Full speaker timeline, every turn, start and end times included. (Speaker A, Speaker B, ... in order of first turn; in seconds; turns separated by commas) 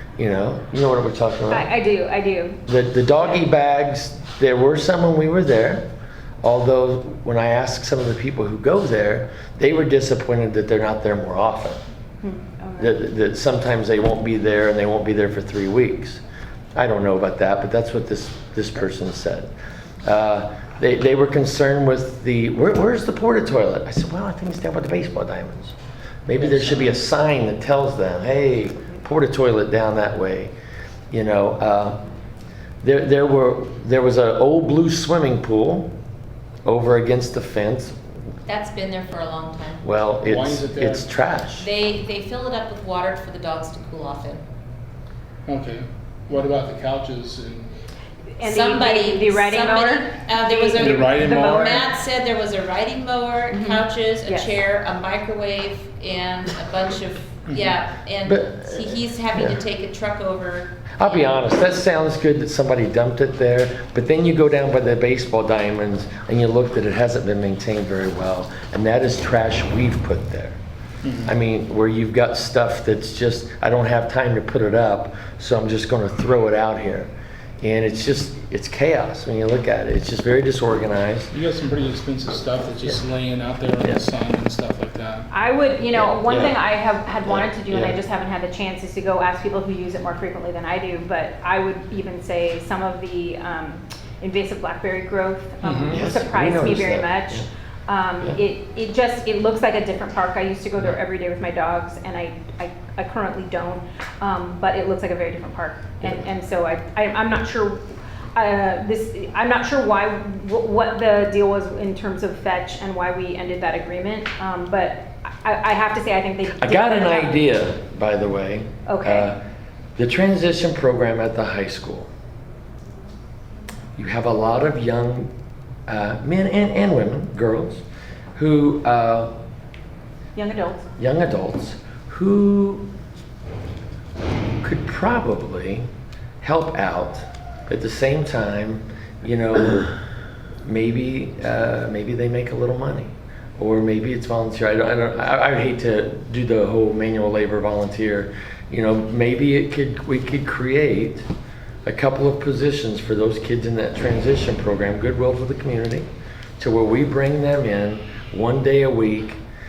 Speaker A: 0.2-1.7, Speaker B: 1.5-2.6, Speaker A: 2.6-5.9, Speaker A: 6.4-11.8, Speaker B: 12.2-13.0, Speaker A: 12.8-16.2, Speaker A: 16.7-19.5, Speaker A: 20.0-30.5, Speaker A: 31.1-32.0, Speaker A: 32.8-35.9, Speaker A: 36.6-37.9, Speaker C: 38.5-39.9, Speaker A: 39.8-41.7, Speaker D: 40.3-41.1, Speaker C: 41.6-44.4, Speaker D: 45.5-47.7, Speaker B: 48.4-51.8, Speaker C: 48.4-61.5, Speaker D: 50.8-51.8, Speaker B: 53.5-54.5, Speaker D: 57.5-57.7, Speaker A: 58.2-59.6, Speaker A: 61.0-70.6, Speaker D: 71.0-71.3, Speaker A: 71.2-77.1, Speaker A: 77.6-81.3, Speaker D: 81.3-85.3, Speaker B: 85.3-107.8, Speaker A: 85.9-86.6, Speaker A: 87.2-88.0, Speaker D: 95.6-96.0, Speaker A: 95.9-97.5, Speaker B: 108.3-117.4, Speaker A: 116.5-119.4, Speaker B: 118.8-119.3, Speaker A: 120.0-122.1, Speaker A: 124.0-125.3, Speaker A: 125.9-127.8, Speaker A: 128.4-129.3, Speaker B: 130.3-130.9, Speaker A: 131.0-132.9, Speaker A: 134.6-135.8, Speaker A: 136.4-139.9, Speaker A: 140.6-151.2, Speaker A: 151.8-156.1, Speaker A: 156.6-159.4